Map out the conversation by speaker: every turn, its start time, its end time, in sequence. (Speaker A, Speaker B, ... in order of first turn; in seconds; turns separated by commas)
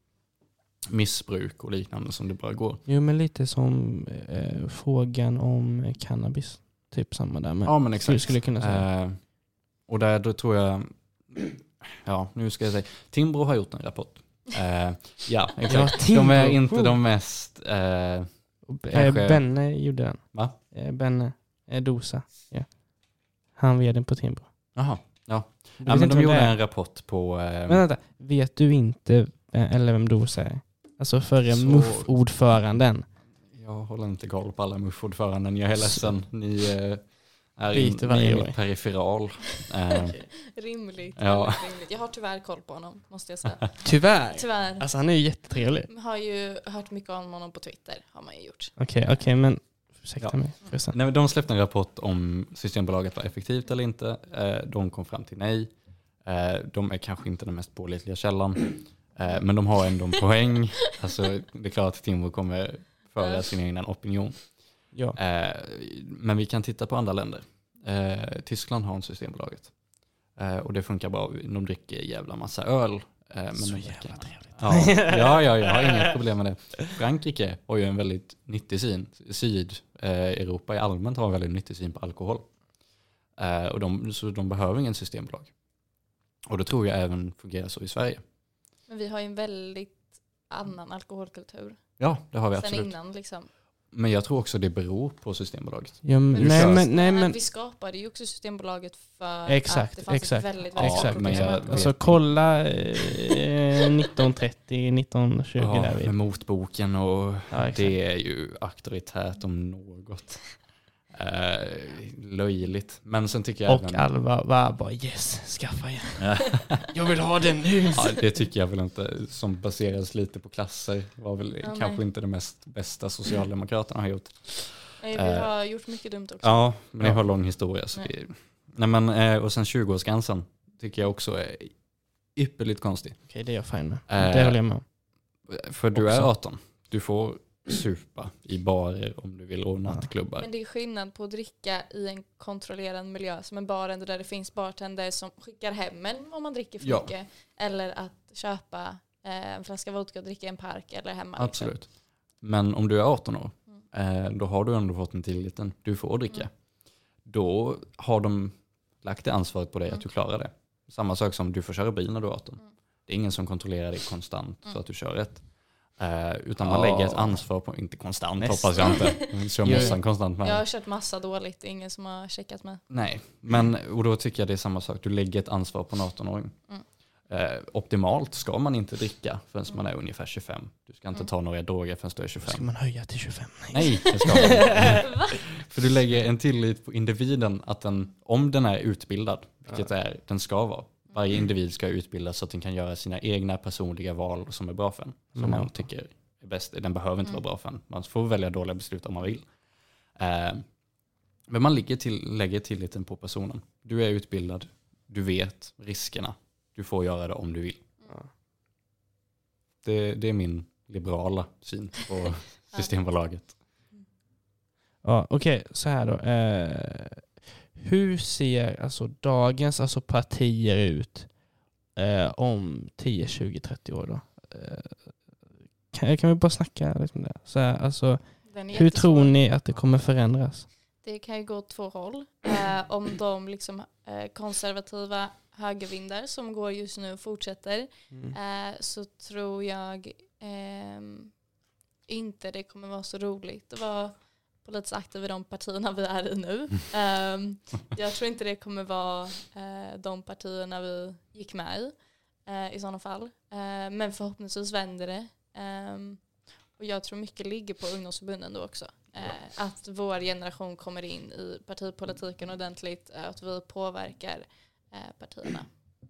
Speaker A: 0.9-2.8, Speaker B: 2.9-8.9, Speaker A: 7.6-19.7, Speaker B: 15.6-17.0, Speaker B: 18.6-25.1, Speaker A: 24.7-27.8, Speaker B: 25.8-26.6, Speaker B: 27.7-33.1, Speaker A: 31.5-32.3, Speaker A: 33.5-40.5, Speaker B: 35.8-36.1, Speaker B: 37.7-38.6, Speaker C: 40.1-49.2, Speaker A: 41.2-41.7, Speaker B: 43.8-45.9, Speaker B: 48.8-51.0, Speaker A: 50.2-88.2, Speaker C: 59.2-59.7, Speaker C: 63.2-63.5, Speaker B: 64.9-65.2, Speaker B: 73.5-76.1, Speaker C: 88.9-93.5, Speaker A: 92.0-96.8, Speaker B: 96.0-97.4, Speaker C: 96.3-102.2, Speaker B: 99.5-106.1, Speaker A: 100.7-102.3, Speaker A: 105.6-114.1, Speaker B: 107.5-108.0, Speaker B: 113.7-118.2, Speaker A: 116.2-116.8, Speaker A: 117.9-125.7, Speaker C: 121.6-122.0, Speaker C: 125.0-126.8, Speaker A: 126.4-140.5, Speaker B: 133.3-134.9, Speaker B: 135.9-136.3, Speaker B: 139.8-140.1, Speaker C: 140.4-151.8, Speaker A: 146.8-147.1, Speaker A: 151.4-170.7, Speaker B: 166.6-167.4, Speaker B: 168.4-170.0, Speaker C: 168.9-172.9, Speaker A: 172.9-182.9, Speaker B: 182.4-185.0, Speaker A: 183.7-207.9, Speaker C: 183.8-185.4, Speaker B: 195.3-195.9, Speaker A: 209.8-213.6, Speaker C: 212.7-214.1, Speaker B: 215.0-230.7, Speaker C: 228.4-229.4, Speaker C: 231.0-241.4, Speaker B: 238.1-238.3, Speaker C: 242.0-265.7